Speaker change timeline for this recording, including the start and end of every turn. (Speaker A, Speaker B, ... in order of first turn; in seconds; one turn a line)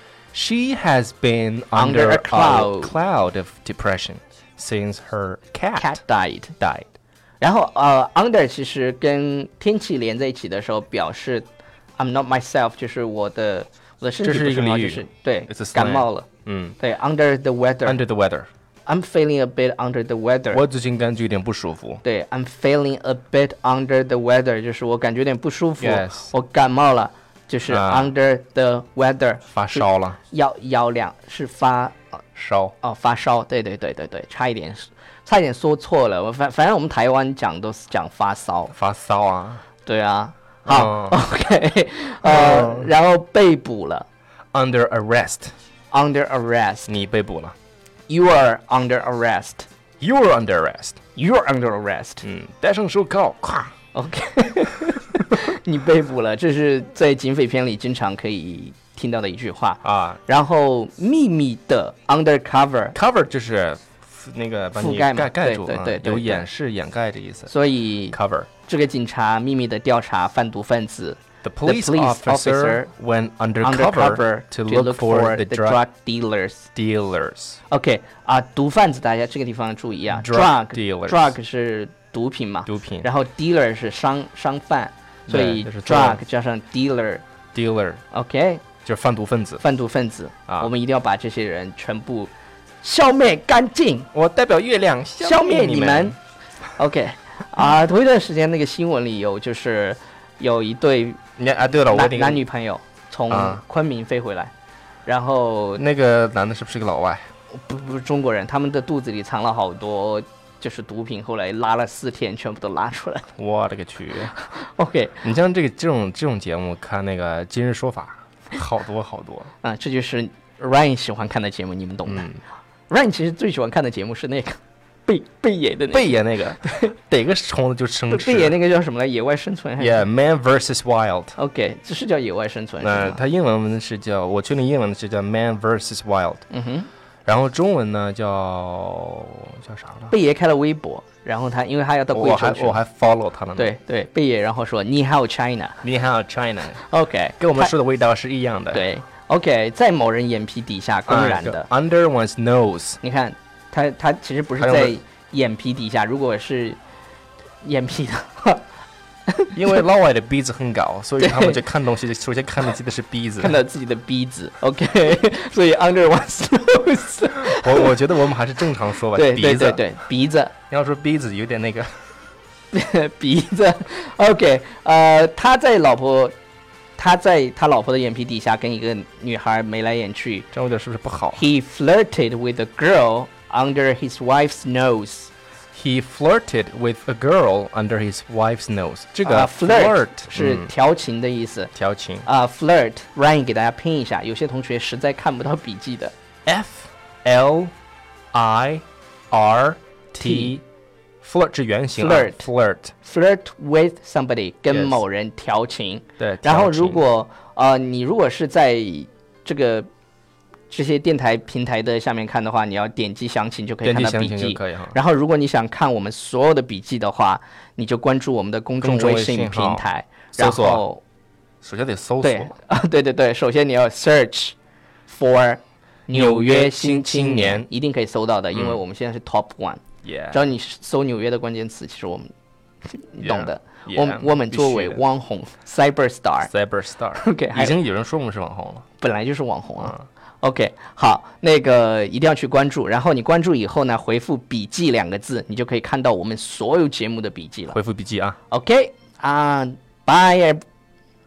Speaker A: 0.3-6.0
Speaker B: 1.7-3.0
Speaker B: 5.8-6.5
Speaker A: 6.6-6.9
Speaker B: 7.4-11.5
Speaker B: 12.0-16.3
Speaker A: 14.2-16.8
Speaker B: 16.8-18.0
Speaker A: 17.9-18.5
Speaker B: 18.9-20.6
Speaker A: 20.5-22.0
Speaker B: 22.0-32.0
Speaker A: 25.8-26.3
Speaker A: 27.7-28.1
Speaker A: 29.5-30.2
Speaker A: 32.4-32.8
Speaker B: 32.8-38.7
Speaker A: 38.7-39.6
Speaker B: 39.8-44.1
Speaker A: 40.7-41.2
Speaker A: 42.2-42.9
Speaker A: 44.5-45.5
Speaker B: 45.9-46.9
Speaker A: 46.9-47.6
Speaker B: 48.1-49.7
Speaker A: 50.0-51.0
Speaker B: 51.2-52.2
Speaker A: 52.2-53.7
Speaker B: 53.9-63.0
Speaker A: 59.8-60.2
Speaker A: 62.9-67.5
Speaker B: 64.8-66.5
Speaker B: 67.5-72.9
Speaker A: 68.1-68.5
Speaker A: 71.4-75.8
Speaker B: 73.6-76.7
Speaker A: 76.8-77.6
Speaker B: 77.7-87.2
Speaker A: 80.1-81.3
Speaker A: 82.7-83.1
Speaker A: 85.3-86.2
Speaker A: 87.5-88.0
Speaker B: 88.1-88.7
Speaker A: 88.8-89.6
Speaker B: 89.6-92.3
Speaker B: 92.8-94.1
Speaker A: 94.1-96.2
Speaker B: 95.2-96.2
Speaker B: 96.8-101.2
Speaker A: 101.4-102.4
Speaker B: 101.9-104.5
Speaker A: 103.3-103.6
Speaker B: 105.1-105.8
Speaker A: 105.8-107.3
Speaker B: 107.5-113.3
Speaker A: 113.4-114.3
Speaker B: 114.4-115.2
Speaker A: 115.2-119.5
Speaker B: 119.6-122.3
Speaker A: 122.1-122.4
Speaker B: 122.9-126.2
Speaker A: 125.9-128.6
Speaker B: 128.1-130.1
Speaker A: 129.8-131.3
Speaker B: 131.4-133.2
Speaker A: 132.8-136.5
Speaker B: 136.5-136.9
Speaker A: 137.3-140.1
Speaker B: 140.1-142.8
Speaker A: 142.1-143.7
Speaker B: 143.6-145.8
Speaker A: 145.8-146.8
Speaker B: 146.9-147.7
Speaker A: 147.4-148.8
Speaker B: 148.7-151.7
Speaker A: 151.1-153.0
Speaker B: 153.0-156.8
Speaker A: 154.6-155.0
Speaker B: 157.6-158.6
Speaker B: 159.3-159.8
Speaker A: 159.6-163.6
Speaker B: 161.2-161.6
Speaker B: 163.4-168.2
Speaker A: 167.4-169.9
Speaker B: 169.1-170.5
Speaker A: 170.7-171.9
Speaker B: 172.7-176.3
Speaker B: 177.0-180.5
Speaker A: 180.5-181.4
Speaker B: 181.4-185.3
Speaker A: 185.7-190.7
Speaker B: 189.2-191.7
Speaker A: 191.8-192.3
Speaker B: 192.3-196.2
Speaker A: 196.5-197.7
Speaker A: 198.3-200.6
Speaker B: 200.2-200.6
Speaker A: 201.2-202.9
Speaker B: 202.0-202.5
Speaker B: 203.0-209.9
Speaker A: 204.7-205.0
Speaker A: 206.2-207.0
Speaker B: 210.7-221.0
Speaker A: 213.8-215.0
Speaker A: 218.8-220.8
Speaker A: 221.6-222.5
Speaker B: 222.2-224.6
Speaker B: 225.1-232.3
Speaker A: 226.1-227.7
Speaker A: 228.5-228.8
Speaker A: 230.0-230.4
Speaker B: 232.9-236.5
Speaker A: 233.2-235.0
Speaker A: 236.5-238.8
Speaker B: 237.2-237.8
Speaker B: 239.0-247.8
Speaker A: 239.8-240.1
Speaker A: 247.7-248.4
Speaker B: 248.5-250.6